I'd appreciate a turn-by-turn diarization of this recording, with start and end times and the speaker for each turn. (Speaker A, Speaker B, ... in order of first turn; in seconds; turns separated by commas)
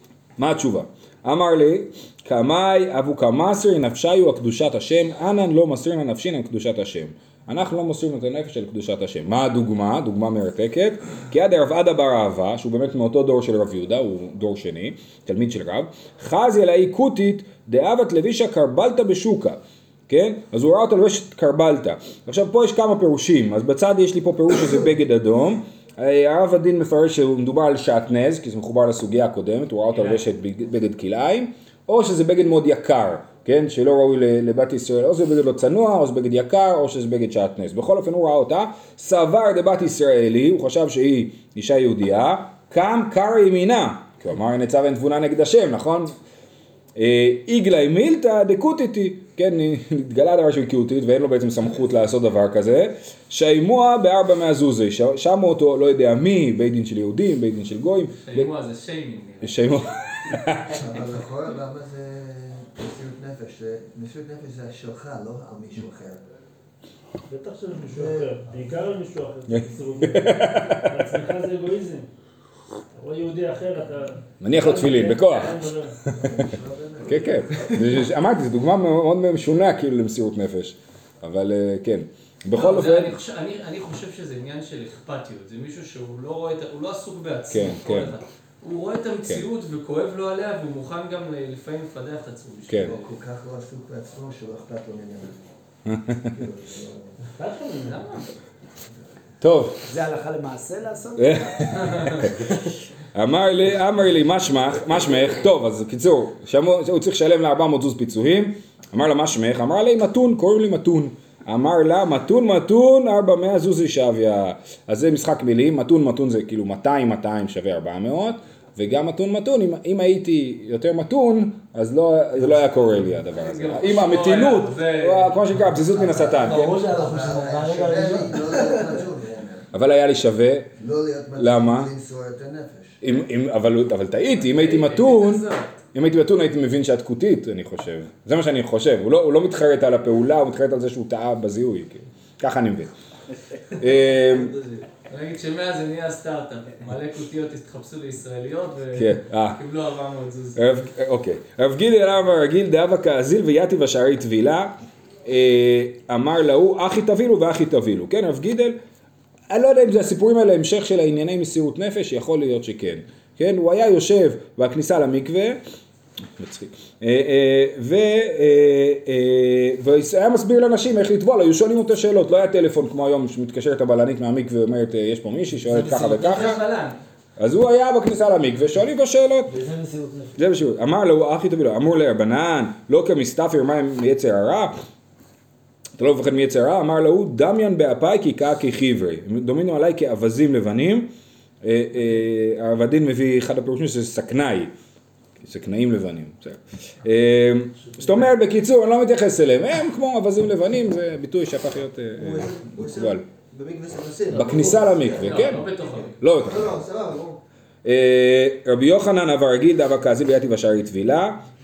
Speaker A: 0.4-46.1, Speaker B: 29.9-30.2, Speaker A: 47.0-58.5, Speaker B: 58.3-59.9, Speaker A: 59.4-60.8, Speaker C: 60.7-66.2, Speaker D: 67.3-72.1, Speaker C: 67.9-68.3, Speaker A: 69.5-71.1, Speaker D: 72.9-76.1, Speaker A: 74.4-76.1, Speaker C: 76.1-77.8, Speaker A: 77.0-83.2, Speaker B: 82.5-93.1, Speaker A: 87.5-88.1, Speaker A: 92.7-92.9, Speaker C: 92.7-95.4, Speaker A: 95.9-96.4, Speaker C: 96.3-97.2, Speaker D: 97.2-98.2, Speaker B: 97.8-98.3, Speaker A: 99.4-99.9, Speaker E: 99.9-101.9, Speaker A: 101.2-102.6, Speaker B: 101.9-102.2, Speaker A: 103.1-126.8, Speaker B: 123.3-125.4, Speaker C: 125.7-129.7, Speaker E: 126.1-129.1, Speaker A: 129.7-130.7, Speaker C: 130.8-133.0, Speaker A: 131.4-131.9, Speaker A: 133.0-142.9, Speaker B: 134.4-135.8, Speaker A: 143.7-144.5, Speaker C: 144.2-144.8, Speaker B: 145.1-150.6, Speaker A: 149.0-149.6, Speaker A: 150.6-158.8, Speaker A: 159.5-165.6, Speaker A: 166.4-176.6, Speaker B: 175.7-177.0, Speaker A: 177.4-179.5, Speaker E: 179.5-180.4, Speaker A: 180.4-184.8, Speaker A: 186.0-191.1, Speaker A: 191.6-194.7, Speaker A: 195.4-203.2, Speaker C: 202.2-207.4, Speaker A: 204.3-206.8, Speaker B: 205.2-206.2, Speaker A: 207.8-211.4